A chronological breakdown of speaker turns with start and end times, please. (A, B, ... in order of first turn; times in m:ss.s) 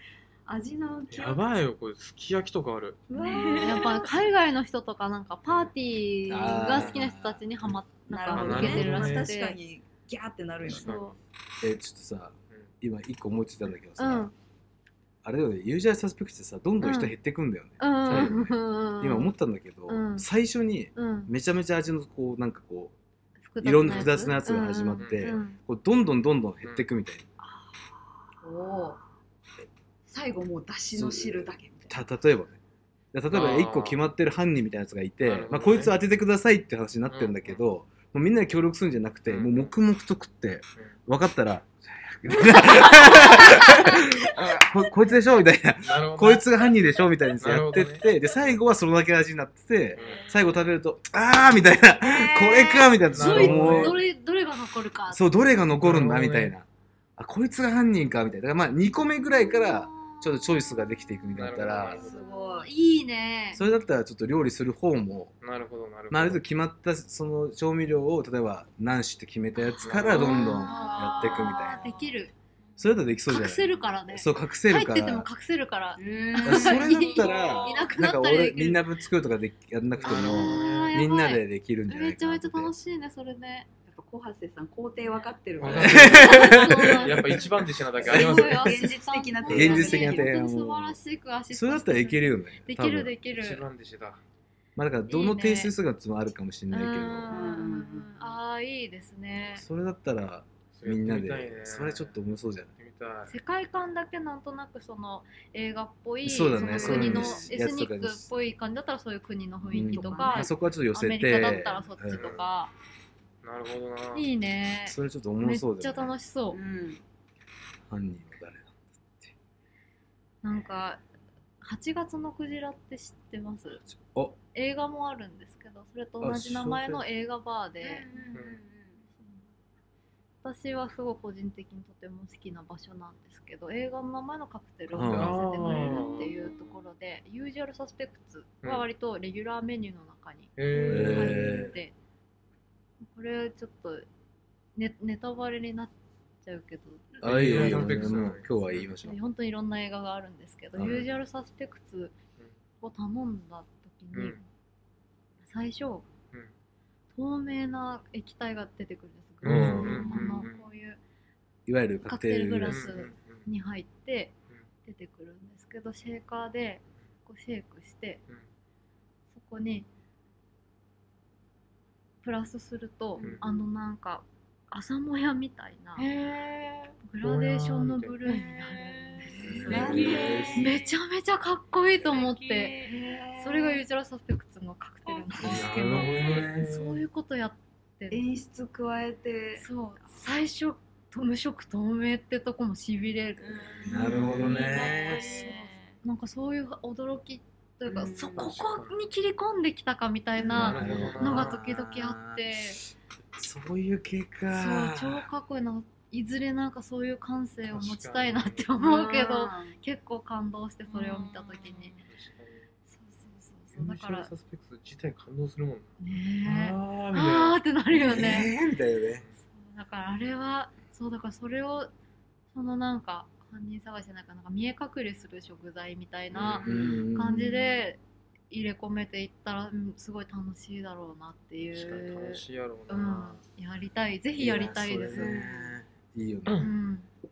0:00.4-0:01.5 A
0:01.1-0:03.1 B
0:03.1-0:04.1 A
0:03.3-0:03.8 C
0:03.5-0:09.6 D
0:06.3-0:07.4 E
0:08.1-0:11.0 A
0:08.3-0:09.3 B
0:08.5-0:08.9 E
0:10.7-0:11.1 B
0:10.7-0:11.1 D
0:11.6-0:14.3 E
0:14.0-0:14.3 D
0:15.2-0:22.9 E
0:16.8-0:17.1 D
0:17.8-0:19.3 D
0:19.9-0:20.2 D
0:20.9-0:21.3 D
0:23.5-0:25.6 D
0:23.6-0:27.2 E
0:25.0-0:25.4 B
0:27.4-0:27.9 A
0:28.4-0:29.0 A
0:30.0-0:32.0 A
0:31.0-0:32.6 E
0:33.1-0:54.0 E
0:33.3-0:34.0 B
0:35.2-0:35.9 B
0:37.1-0:37.6 B
0:39.3-0:39.7 B
0:42.7-0:43.5 D
0:44.4-0:44.6 B
0:45.8-0:46.5 B
0:47.4-0:48.0 B
0:49.9-0:50.3 B
0:49.9-0:50.4 C
0:52.1-0:55.2 D
0:53.1-0:54.0 B
0:55.1-0:56.6 E
0:55.8-0:56.5 B
0:57.2-1:02.1 E
0:59.4-1:00.3 D
1:01.3-1:02.2 B
1:01.8-1:02.7 A
1:02.0-1:03.6 D
1:03.5-1:05.3 E
1:05.4-1:06.4 B
1:06.1-1:12.0 E
1:09.6-1:12.3 D
1:09.8-1:10.7 B
1:12.8-1:15.3 E
1:13.3-1:18.8 D
1:16.0-1:17.0 A
1:16.4-1:22.7 E
1:17.0-1:18.0 C
1:20.0-1:20.9 B
1:20.1-1:23.7 D
1:23.9-1:26.3 A
1:25.0-1:25.3 C
1:25.6-1:28.8 B
1:25.6-1:27.5 E
1:26.1-1:27.4 D
1:26.3-1:27.1 C
1:28.0-1:33.6 D
1:28.0-1:30.3 A
1:29.5-1:31.0 E
1:31.5-1:33.1 E
1:33.3-1:34.2 B
1:34.8-1:37.3 E
1:35.1-1:35.7 D
1:36.7-1:39.6 D
1:37.3-1:38.4 A
1:39.5-1:42.7 E
1:40.7-1:42.1 B
1:42.8-1:43.4 B
1:43.3-1:52.7 D
1:46.2-1:48.3 E
1:46.5-1:47.5 A
1:46.8-1:47.1 B
1:49.7-1:52.4 E
1:49.8-1:50.5 A
1:52.1-1:52.4 B
1:53.4-1:54.2 B
1:54.1-1:56.6 D
1:54.8-1:56.2 E
1:56.5-1:57.0 A
1:57.9-1:59.3 E
2:00.4-2:01.0 D
2:01.6-2:03.8 D
2:04.0-2:04.4 E
2:04.5-2:08.1 D
2:06.2-2:07.0 E
2:07.8-2:09.0 A
2:08.3-2:08.6 B
2:10.4-2:21.9 D
2:14.9-2:16.3 B
2:14.9-2:15.4 E
2:15.6-2:16.5 A
2:18.6-2:18.9 B
2:20.6-2:21.7 B
2:20.8-2:21.8 E
2:23.0-2:24.0 D
2:24.8-2:28.1 D
2:27.2-2:28.9 B
2:27.2-2:29.2 E
2:29.0-2:32.2 D
2:30.7-2:31.1 E
2:32.8-2:34.4 D
2:34.1-2:34.4 B
2:35.4-2:36.1 D
2:37.1-2:41.0 D
2:39.4-2:40.7 B
2:39.4-2:40.3 E
2:41.6-2:43.0 E
2:42.0-2:48.2 D
2:42.6-2:43.5 B
2:49.3-2:49.9 D
2:52.2-2:56.0 D
2:53.2-2:53.6 A
2:53.2-2:53.4 B
2:56.0-2:56.9 C
2:57.0-3:02.8 D
2:57.2-2:58.2 B
2:58.2-3:01.0 C
2:59.2-3:00.5 A
2:59.4-3:00.4 B
2:59.4-3:00.7 E
3:02.0-3:02.9 C
3:02.8-3:03.8 A
3:03.4-3:08.2 D
3:05.0-3:05.3 C
3:05.4-3:06.6 E
3:05.5-3:07.0 B
3:08.1-3:09.6 A
3:09.6-3:22.8 D
3:13.5-3:13.8 A
3:13.5-3:16.0 C
3:13.8-3:15.4 E
3:14.1-3:14.7 B
3:17.8-3:18.5 A
3:18.4-3:18.8 E
3:18.7-3:19.0 B
3:20.4-3:21.6 B
3:20.5-3:22.5 E
3:23.4-3:25.3 E
3:24.5-3:32.0 D
3:27.6-3:28.7 B
3:28.8-3:29.8 A
3:30.9-3:32.0 C
3:32.1-3:32.7 B
3:32.9-3:34.3 D
3:33.7-3:38.3 B
3:36.0-3:38.5 D
3:38.0-3:39.2 E
3:39.5-3:41.9 D
3:42.5-3:55.7 D
3:46.3-3:47.0 B
3:46.6-3:47.8 E
3:51.7-3:53.4 B
3:54.4-3:56.7 E
3:54.8-3:55.3 B
3:56.4-3:56.7 B
3:56.6-3:57.1 D